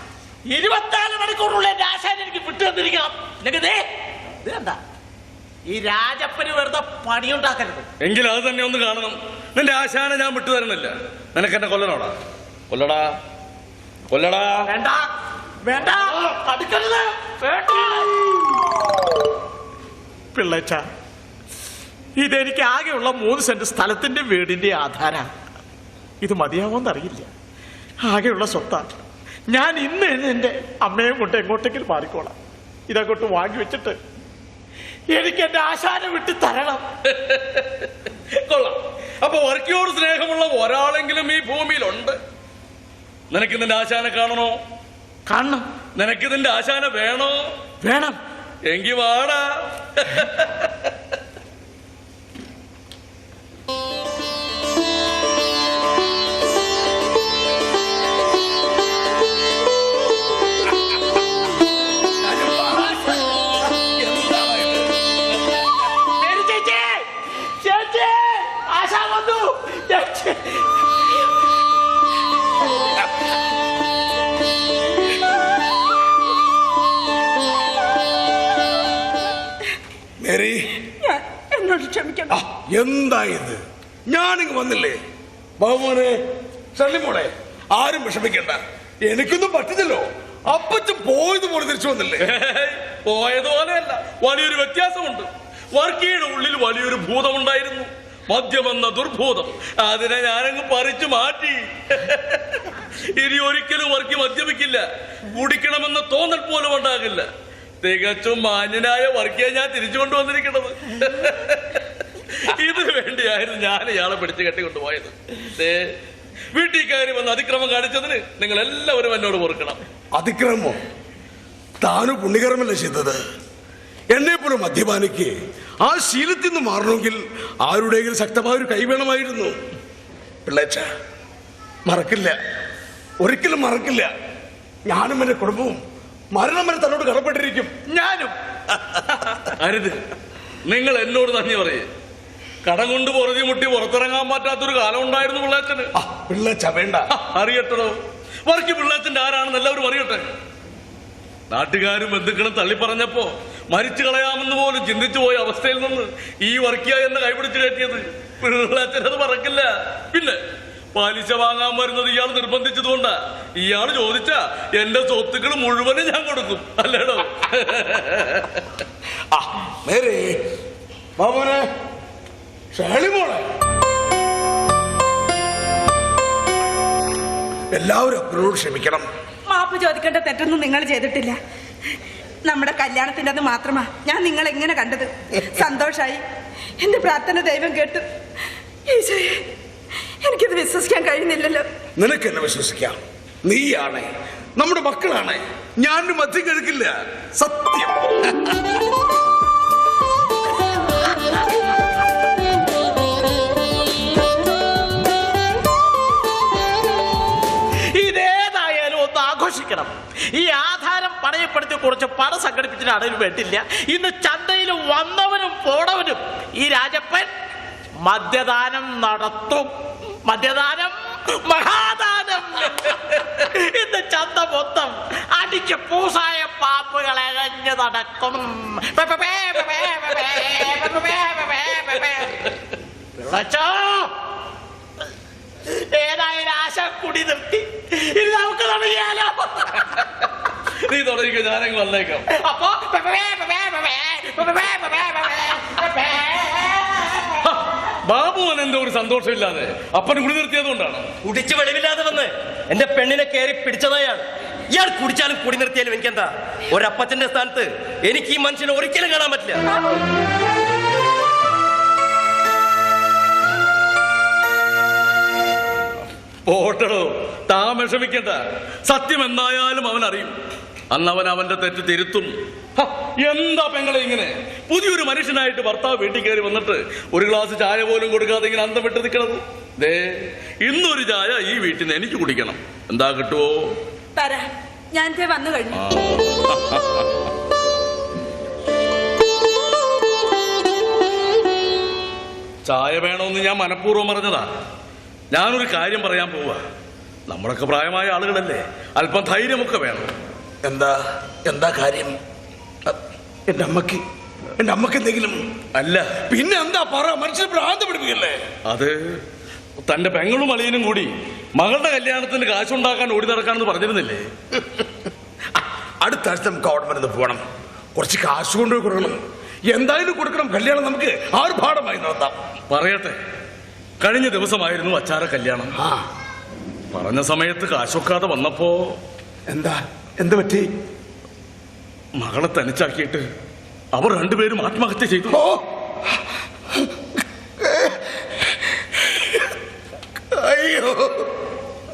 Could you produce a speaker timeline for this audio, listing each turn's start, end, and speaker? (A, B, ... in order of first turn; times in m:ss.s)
0:00.5-0:03.9 A
0:04.4-0:04.8 A
0:05.7-0:07.9 A
0:08.0-0:12.1 B
0:12.7-0:13.1 B
0:14.1-0:14.7 B
0:14.7-0:15.1 A
0:15.6-0:18.6 A
0:20.3-0:20.8 A
0:22.2-0:25.3 A
0:26.2-0:27.3 A
0:28.1-0:29.0 A
0:29.5-0:32.4 A
0:32.9-0:34.0 A
0:35.1-0:36.8 A
0:37.1-0:42.2 B
0:43.3-0:44.6 B
0:45.3-0:45.7 A
0:46.0-0:47.4 B
0:47.8-0:48.2 A
0:48.7-0:50.9 B
1:02.2-1:05.0 C
1:06.2-1:10.7 A
1:20.2-1:20.6 C
1:21.0-1:22.4 D
1:22.3-1:25.0 C
1:25.6-1:26.2 C
1:26.8-1:32.3 C
1:32.2-1:44.8 B
1:45.4-1:47.3 B
1:47.8-1:55.8 B
1:56.5-1:59.8 B
2:00.2-2:00.8 C
2:01.8-2:03.2 C
2:04.1-2:09.6 C
2:10.5-2:10.9 C
2:11.9-2:12.4 C
2:13.2-2:14.1 C
2:14.9-2:15.8 C
2:16.4-2:17.7 C
2:17.9-2:18.3 A
2:19.5-2:20.0 B
2:20.7-2:21.9 B
2:22.6-2:25.9 B
2:26.0-2:27.0 C
2:27.1-2:30.3 B
2:31.5-2:40.4 B
2:41.0-2:48.6 B
2:49.3-2:50.4 C
2:51.2-2:51.7 C
2:52.7-2:53.4 C
2:57.7-2:59.1 C
2:59.5-3:01.4 D
3:02.5-3:06.2 D
3:06.8-3:08.0 D
3:08.9-3:09.4 D
3:10.2-3:11.6 D
3:12.0-3:14.1 C
3:14.6-3:18.3 C
3:27.9-3:37.3 A
3:38.0-3:39.7 A
3:40.3-3:52.5 A
3:53.2-3:54.1 A
3:55.7-3:59.9 A
3:59.9-4:02.3 B
4:02.3-4:07.3 A
4:07.4-4:11.1 B
4:11.2-4:19.6 E
4:26.5-4:30.3 B
4:30.9-4:40.0 B
4:40.6-4:43.6 B
4:44.2-4:45.8 D
4:45.7-4:47.1 B
4:52.7-4:54.5 B
4:55.3-4:56.6 B
4:57.3-5:00.1 B
5:00.6-5:02.2 C
5:03.5-5:04.0 C
5:04.6-5:05.4 C
5:05.8-5:06.1 B
5:06.3-5:08.4 C
5:08.7-5:08.9 B
5:09.9-5:14.2 B
5:16.0-5:17.4 C
5:18.0-5:19.2 C
5:19.7-5:22.4 C
5:22.7-5:23.2 B
5:24.0-5:25.7 B
5:25.8-5:26.0 C
5:26.9-5:29.0 B
5:29.5-5:30.7 C
5:32.2-5:33.2 B
5:33.9-5:35.4 B
5:35.3-5:35.6 C
5:37.6-5:37.9 C
5:39.1-5:39.5 C
5:40.3-5:41.3 C